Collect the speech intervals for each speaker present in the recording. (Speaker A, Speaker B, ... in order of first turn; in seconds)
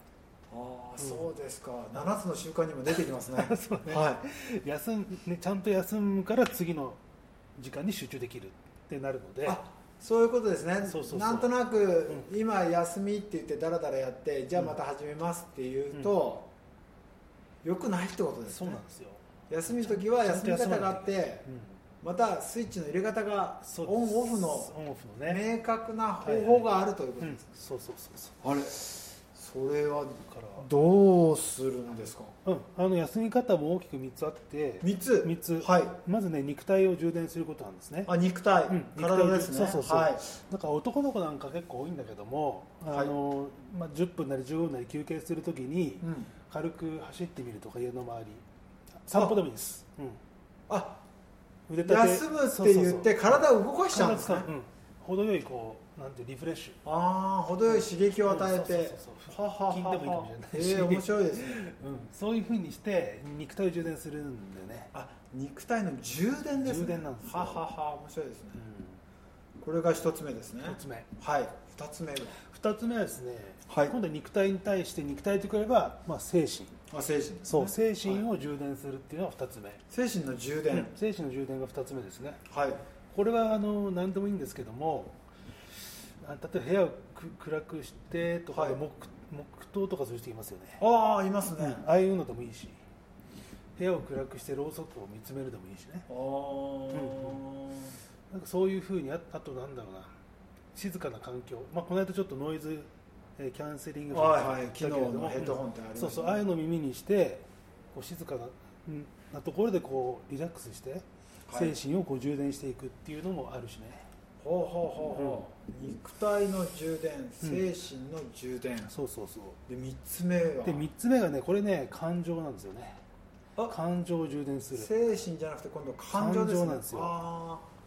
Speaker A: 0.5-4.2, 9.4-16.5, 17.6-18.8, 19.5-21.4, 22.0-24.7, 25.2-27.5, 28.4-32.3, 34.8-36.0, 38.0-40.2, 46.0-46.3, 49.1-49.4, 50.7-51.0, 51.8-54.5, 56.8-61.6, 64.9-68.6, 69.6-72.4, 73.7-74.0, 76.9-78.2, 79.9-80.9, 82.5-82.8, 88.5-88.8, 90.8-91.8, 96.1-97.9, 104.1-106.4, 111.5-111.8, 114.4-118.9, 119.7-120.9, 124.7-127.7
Speaker B: 1.0-1.3, 2.9-7.0, 7.6-9.6, 10.8-11.5, 18.5-21.8, 23.6-25.4, 26.2-28.4, 30.3-30.7, 32.4-38.1, 38.7-48.4, 49.0-50.2, 51.7-56.8, 57.7-64.9, 66.6-67.6, 68.5-69.0, 70.6-71.1, 72.4-76.7, 77.4-79.8, 80.7-82.4, 83.1-85.2, 86.2-90.8, 91.6-92.8, 93.8-96.1, 96.9-97.4, 98.3-100.1, 100.7-114.0, 115.1-115.4, 117.4-117.7, 118.8-119.6, 120.6-123.0, 123.7-124.9, 126.1-127.1